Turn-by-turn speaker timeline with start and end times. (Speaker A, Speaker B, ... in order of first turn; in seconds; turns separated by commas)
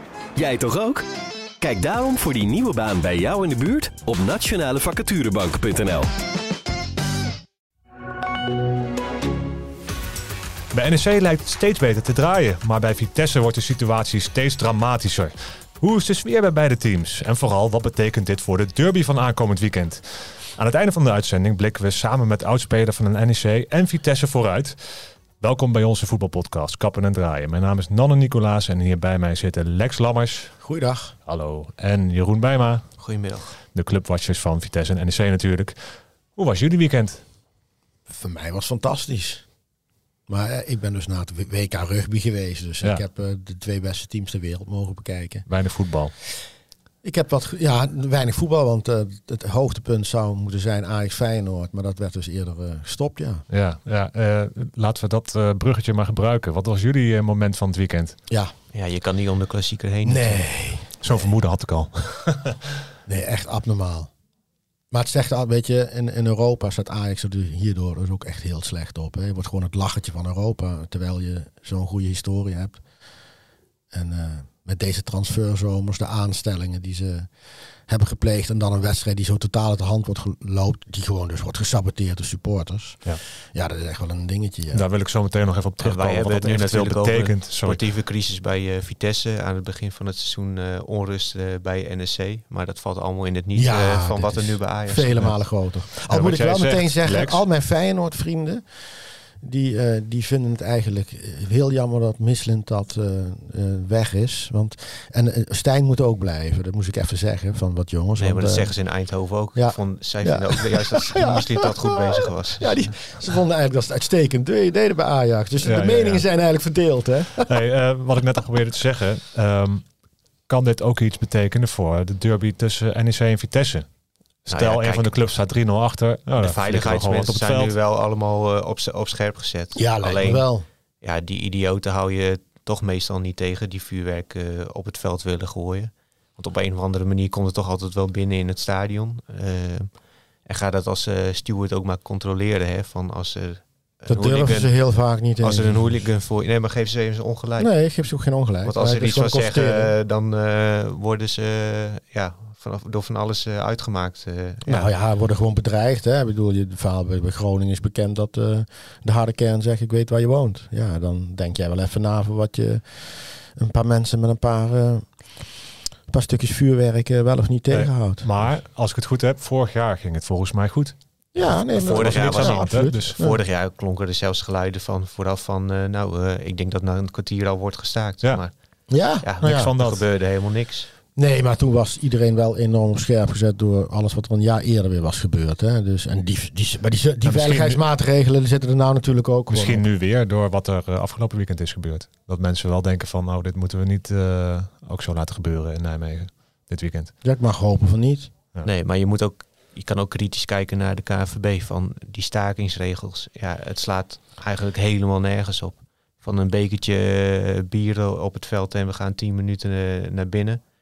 Speaker A: 0.3-1.0, Speaker A: 1.6-6.1, Speaker B: 10.7-30.6, Speaker C: 30.6-31.2, Speaker B: 31.2-37.2, Speaker D: 33.0-33.5, Speaker C: 38.1-39.5, Speaker C: 40.3-45.5, Speaker B: 45.5-46.2, Speaker C: 47.0-53.5, Speaker B: 53.5-58.2, Speaker D: 58.7-60.5, Speaker C: 60.0-61.3, Speaker B: 61.0-62.6, Speaker C: 63.0-64.1, Speaker C: 64.9-72.8, Speaker C: 73.9-84.8, Speaker B: 84.7-87.8, Speaker D: 85.8-95.2, Speaker C: 93.5-108.9, Speaker B: 95.2-97.4, Speaker D: 108.2-113.2, Speaker C: 109.5-112.0, Speaker C: 112.6-117.5, Speaker B: 115.6-116.3, Speaker B: 117.5-123.9, Speaker B: 124.4-127.7, Speaker D: 124.5-125.1, Speaker D: 126.4-147.9, Speaker C: 129.8-130.7, Speaker C: 144.1-146.1, Speaker C: 147.6-149.9, Speaker D: 148.6-154.9, Speaker C: 154.7-168.5, Speaker B: 167.7-173.2, Speaker C: 171.3-173.4, Speaker D: 171.8-180.9, Speaker C: 178.9-179.7, Speaker B: 179.4-180.1, Speaker C: 181.2-189.8, Speaker B: 187.2-187.8, Speaker B: 189.5-197.1, Speaker C: 197.2-198.3, Speaker D: 198.6-210.6